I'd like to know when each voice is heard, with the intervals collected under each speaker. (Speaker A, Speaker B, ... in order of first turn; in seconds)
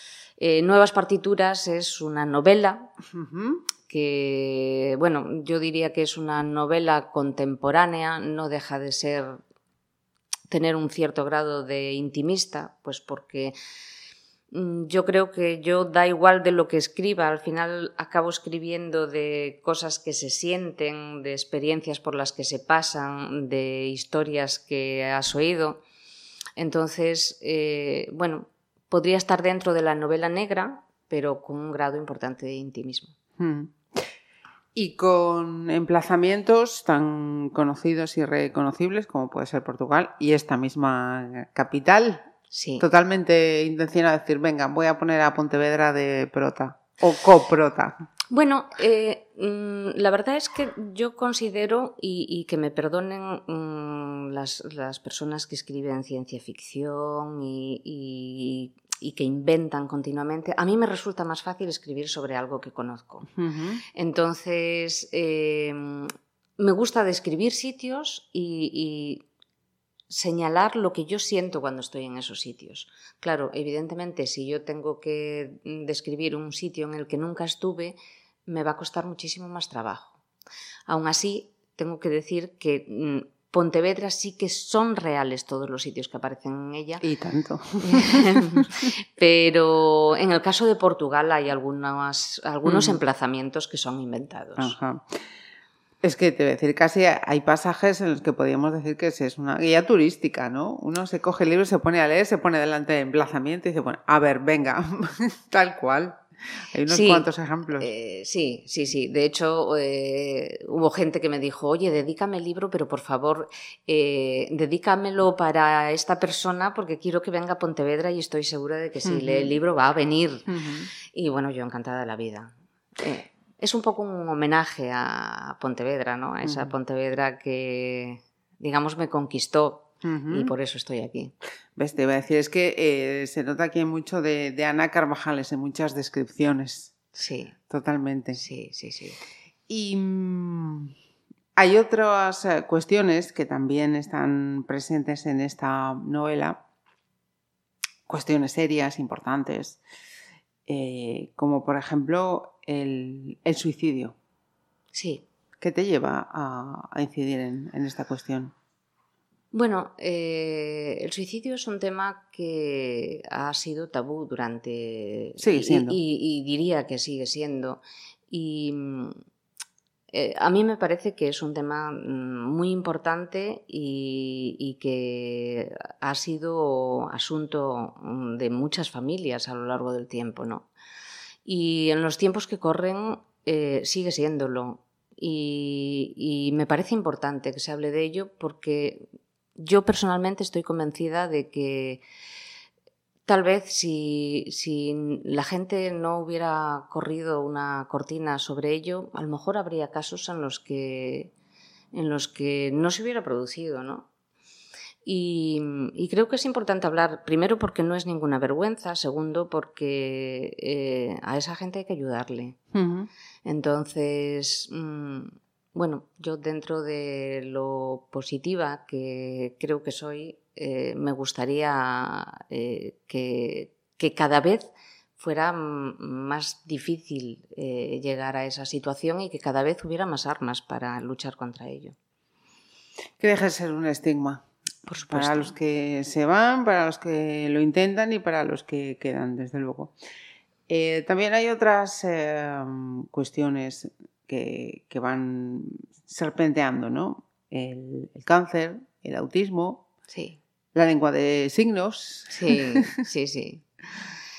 Speaker A: 0.4-2.9, 3.9-9.4, 10.5-13.5, 14.5-25.8, 26.6-33.1, 42.5-42.9, 48.3-63.3, 63.9-69.2, 70.1-80.2, 80.9-87.0, 87.8-94.8, 106.9-120.5, 121.1-131.3, 137.1-137.5, 138.3-139.2, 154.9-155.2, 159.5-169.1, 170.1-180.7, 181.4-192.0, 193.2-201.3, 201.9-204.1, 205.0-212.6, 213.4-231.9, 234.9-235.5, 250.1-250.4, 252.3-253.7
Speaker B: 3.1-3.6, 33.4-34.0, 34.7-42.2, 42.8-48.0, 63.4-63.8, 87.0-88.7, 92.6-93.0, 94.6-95.2, 96.0-106.2, 106.7-107.9, 119.0-119.6, 120.5-120.9, 126.4-126.7, 130.0-130.5, 131.8-136.9, 137.7-138.4, 139.7-140.9, 141.6-146.6, 148.1-149.8, 150.7-154.1, 155.6-158.5, 165.4-166.0, 212.7-213.1, 233.2-234.4, 235.1-239.9, 240.7-249.9, 250.7-252.9